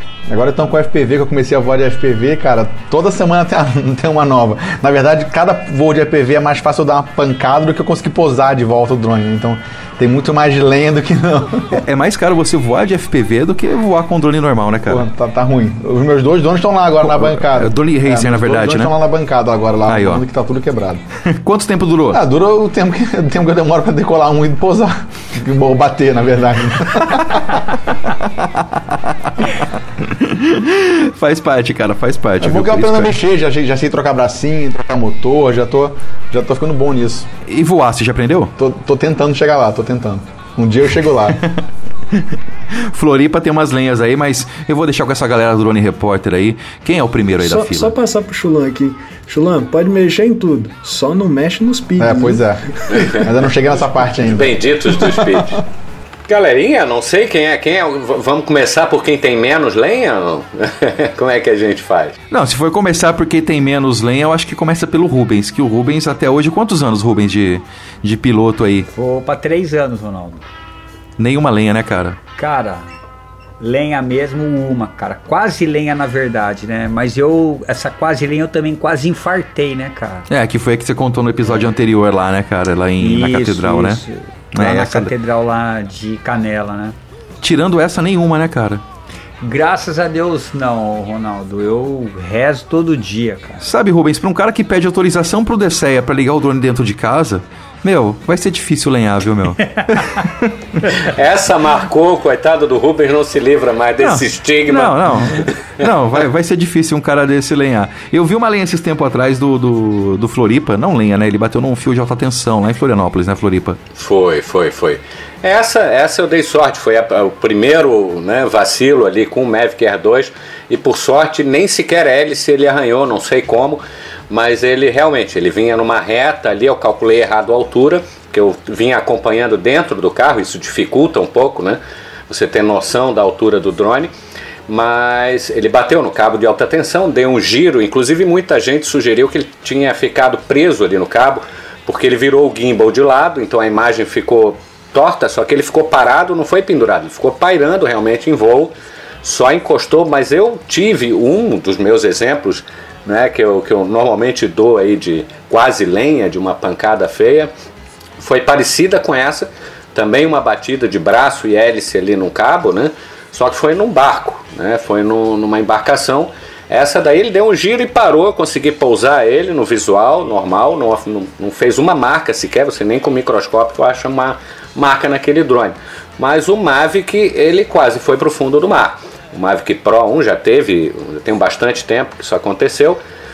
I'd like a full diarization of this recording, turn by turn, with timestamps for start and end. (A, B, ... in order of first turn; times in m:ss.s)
0:00.3-0:11.8 A
0:11.7-0:15.0 B
0:14.9-0:21.0 A
0:17.0-0:18.9 B
0:19.9-0:20.2 B
0:21.3-0:22.2 B
0:22.1-0:27.6 A
0:28.4-0:33.2 B
0:32.4-0:37.3 A
0:37.5-0:38.5 B
0:38.6-0:41.4 A
0:42.1-0:47.9 B
0:47.4-0:53.0 C
0:52.0-0:55.4 A
0:54.3-0:55.6 D
0:56.3-1:02.2 D
1:02.3-1:08.9 B
1:08.9-1:10.4 E
1:11.2-1:12.2 B
1:12.4-1:12.9 E
1:13.6-1:20.3 E
1:20.3-1:24.0 B
1:23.0-1:27.0 E
1:24.5-1:25.1 B
1:27.4-1:28.8 B
1:29.4-1:33.6 E
1:33.6-1:40.5 B
1:39.9-1:40.2 E
1:41.0-1:45.9 D
1:44.0-1:53.8 B
1:54.0-2:14.1 D
2:14.7-2:37.5 D
2:38.2-3:03.0 D